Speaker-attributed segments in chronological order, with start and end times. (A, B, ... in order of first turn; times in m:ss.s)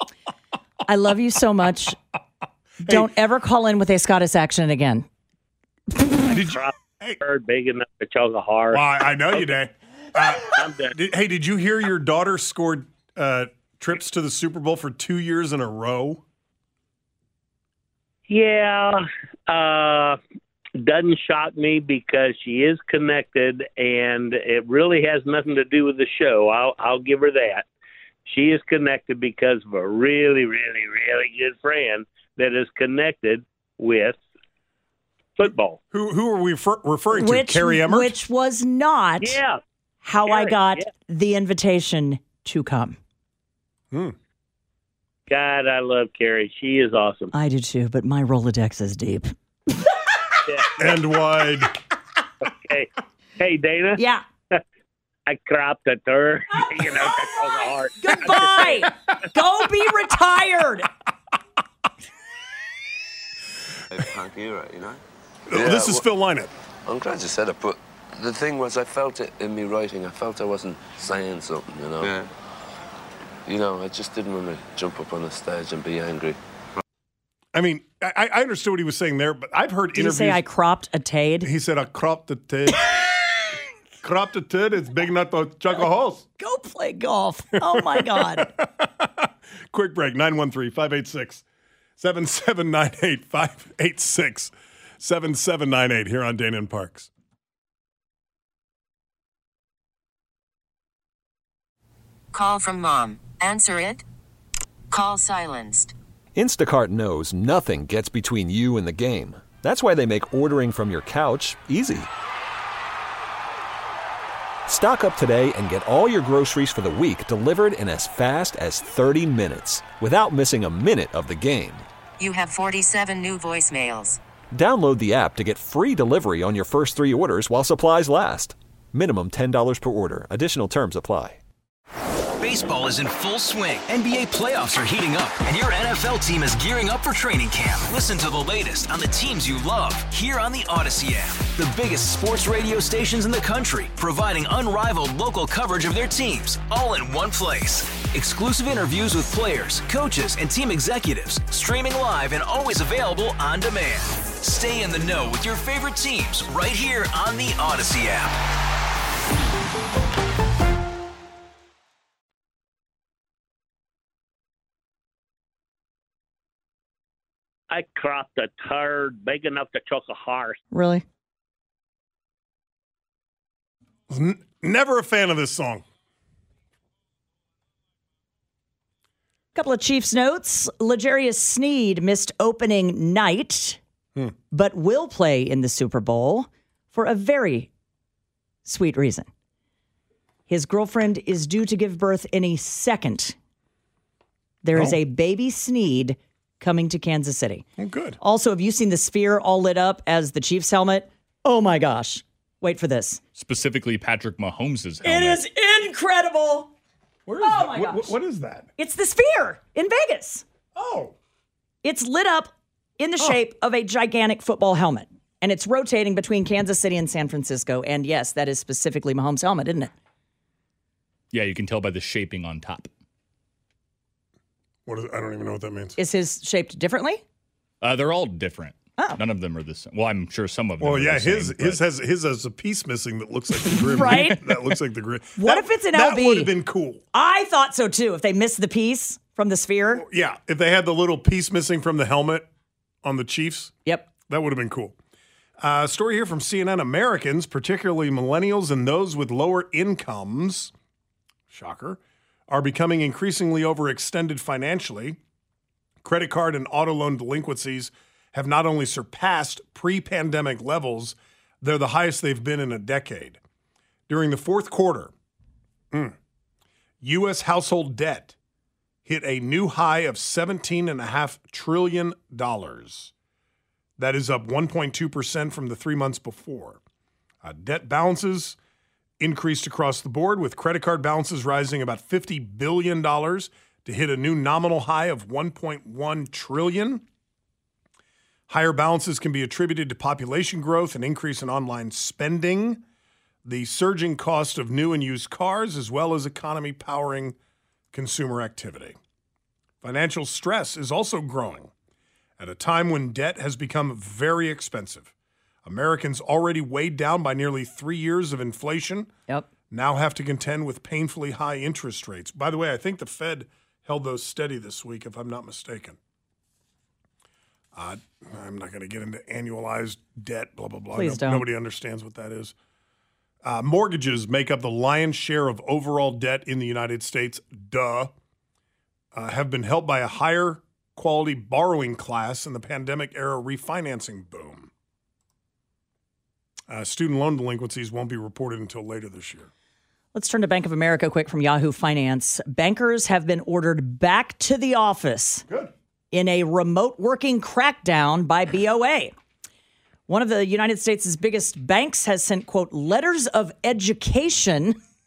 0:00.9-0:02.0 A
0:02.8-0:05.1 A
0:02.8-0:03.1 B
0:06.2-0:07.2 B
0:06.3-0:09.5 C
0:08.7-0:16.2 B
0:10.4-0:10.9 C
0:18.3-0:20.2 C
0:20.8-0:27.7 C
0:28.3-0:34.2 C
0:35.4-0:35.8 C
0:35.9-0:38.2 B
0:37.1-0:39.4 A
0:39.2-0:39.6 C
0:40.0-0:43.0 A
0:40.3-0:40.8 C
0:45.3-0:47.3 C
0:47.3-0:49.3 A
0:50.5-0:51.0 C
0:50.8-0:51.8 B
0:52.4-0:54.0 C
0:54.0-0:54.2 A
0:55.3-0:58.8 C
0:58.0-1:00.9 A
1:03.9-1:06.0 D
1:05.5-1:06.5 B
1:06.9-1:12.3 D
1:13.5-1:16.4 D
1:17.5-1:20.4 B
1:19.9-1:21.5 A
1:21.4-1:23.0 B
1:24.0-1:26.3 B
1:26.4-1:28.5 A
1:27.7-1:31.4 B
1:32.0-1:37.1 B
1:42.3-1:44.0 E
1:44.9-1:45.9 E
1:46.4-1:52.1 F
1:54.7-2:01.9 F
2:02.2-2:04.2 E
2:04.5-2:11.4 F
2:12.4-2:38.4 G
2:47.7-2:50.6 C
2:50.7-2:51.0 A
2:54.1-2:55.8 B
2:59.6-3:03.8 A
3:04.5-3:07.7 A
3:08.7-3:09.3 A
3:10.5-3:13.4 A
3:14.6-3:17.6 A
3:17.8-3:18.2 B
3:18.2-3:23.2 A
3:23.4-3:25.4 H
3:25.0-3:26.7 A
3:27.3-3:28.7 B
3:27.4-3:28.2 A
3:28.8-3:30.4 A
3:30.8-3:31.2 B
3:31.8-3:39.9 A
3:41.3-3:42.9 H
3:44.9-3:46.0 B
3:46.0-3:47.2 A
3:47.8-3:51.8 H
3:50.8-3:57.0 B
3:53.9-3:54.4 A
3:54.1-3:54.6 H
3:55.4-3:56.5 A
3:57.1-4:00.0 A
4:00.0-4:02.5 B
4:03.0-4:05.0 B
4:05.6-4:10.7 B
4:11.5-4:15.2 B
4:16.0-4:23.4 B
4:24.1-4:25.1 B
4:27.0-4:28.4 B
4:29.1-4:33.1 B
4:34.0-4:36.8 B
4:37.4-4:38.6 B
4:39.2-4:47.0 B
4:48.5-4:52.8 B
4:53.4-4:57.4 B
4:57.9-4:59.0 B
4:59.8-5:01.7 B
5:02.4-5:05.1 B
5:05.6-5:09.1 B
5:09.7-5:16.0 B
5:17.8-5:22.5 B
5:20.9-5:21.5 A
5:23.4-5:28.1 B
5:29.1-5:34.7 B
5:36.7-5:39.5 B
5:40.1-5:45.4 A
5:45.5-5:45.7 B
5:46.1-5:49.1 A
5:50.1-5:54.8 A